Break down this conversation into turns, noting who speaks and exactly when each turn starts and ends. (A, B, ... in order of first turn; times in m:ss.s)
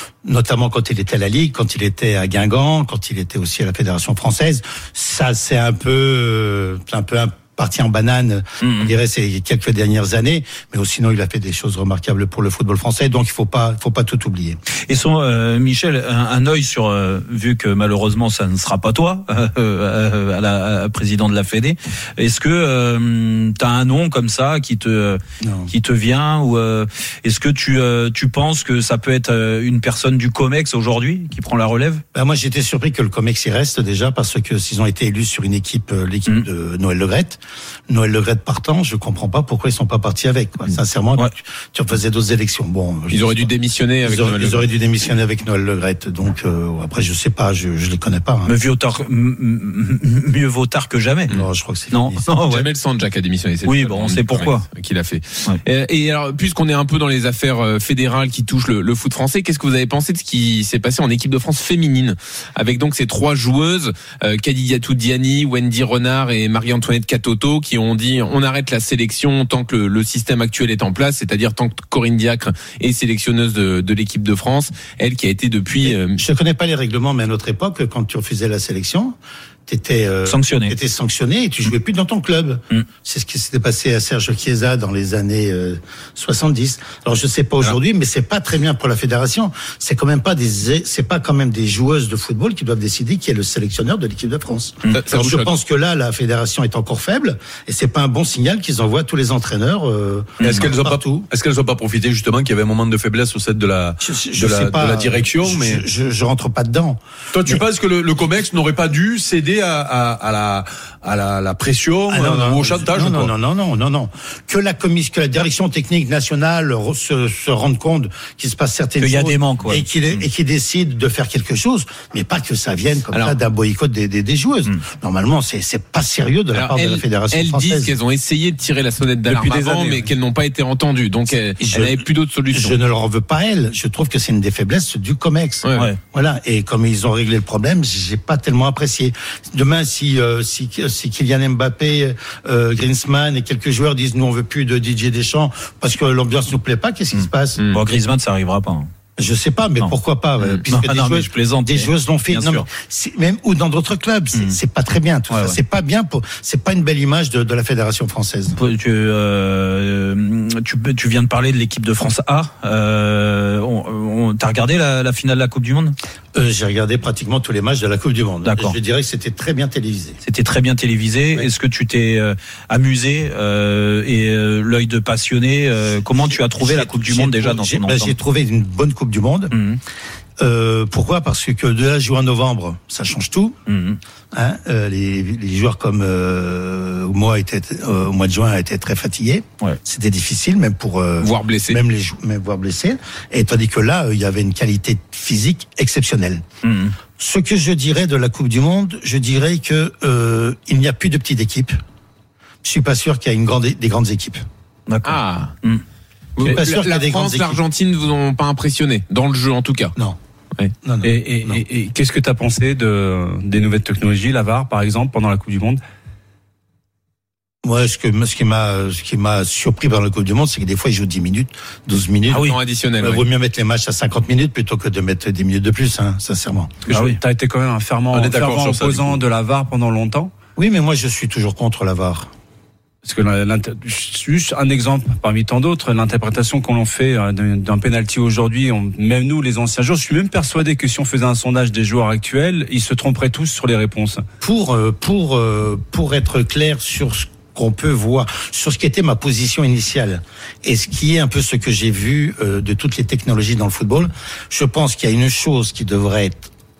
0:00.2-0:14.6 A
0:08.6-0:08.9 B
0:14.9-0:32.0 B
0:25.4-0:25.7 A
0:32.1-0:43.5 A
0:43.1-0:44.6 C
0:44.0-0:48.5 A
0:48.4-0:51.3 B
0:51.3-0:52.2 A
0:51.9-0:52.7 B
0:52.5-1:16.2 C
0:53.6-0:54.6 B
1:15.8-1:19.2 A
1:19.7-1:41.3 A
1:20.3-1:20.7 B
1:34.9-1:35.5 C
1:40.4-1:45.8 D
1:44.0-1:47.6 A
1:47.3-1:53.3 D
1:52.1-2:07.9 A
1:59.0-1:59.9 B
2:06.5-2:12.8 C
2:09.3-2:10.0 E
2:11.6-2:27.6 A
2:15.6-2:15.9 C
2:27.1-2:28.9 B
2:27.6-2:27.8 C
2:29.2-2:38.6 A
2:30.4-2:32.7 B
2:35.3-2:35.6 B
2:38.6-2:46.0 B
2:46.3-2:50.2 A
2:48.4-2:48.8 B
2:50.2-2:58.1 B
2:56.1-2:59.5 A
2:59.5-2:59.8 B
3:00.4-3:03.6 A
3:03.7-3:04.0 B
3:04.3-3:16.4 A
3:11.2-3:11.8 C
3:16.6-3:16.9 B
3:17.2-3:21.8 A
3:22.6-3:24.4 A
3:24.9-3:25.8 B
3:25.0-3:25.5 C
3:26.4-3:29.9 C
3:26.4-3:27.6 A
3:30.8-3:31.6 A
3:31.0-3:35.8 E
3:37.6-3:46.8 A
3:42.3-3:43.2 C
3:46.9-3:50.3 E
3:46.9-3:47.2 B
3:48.1-3:49.2 D
3:50.6-3:52.3 A
3:53.0-4:04.2 E
4:04.4-4:16.5 A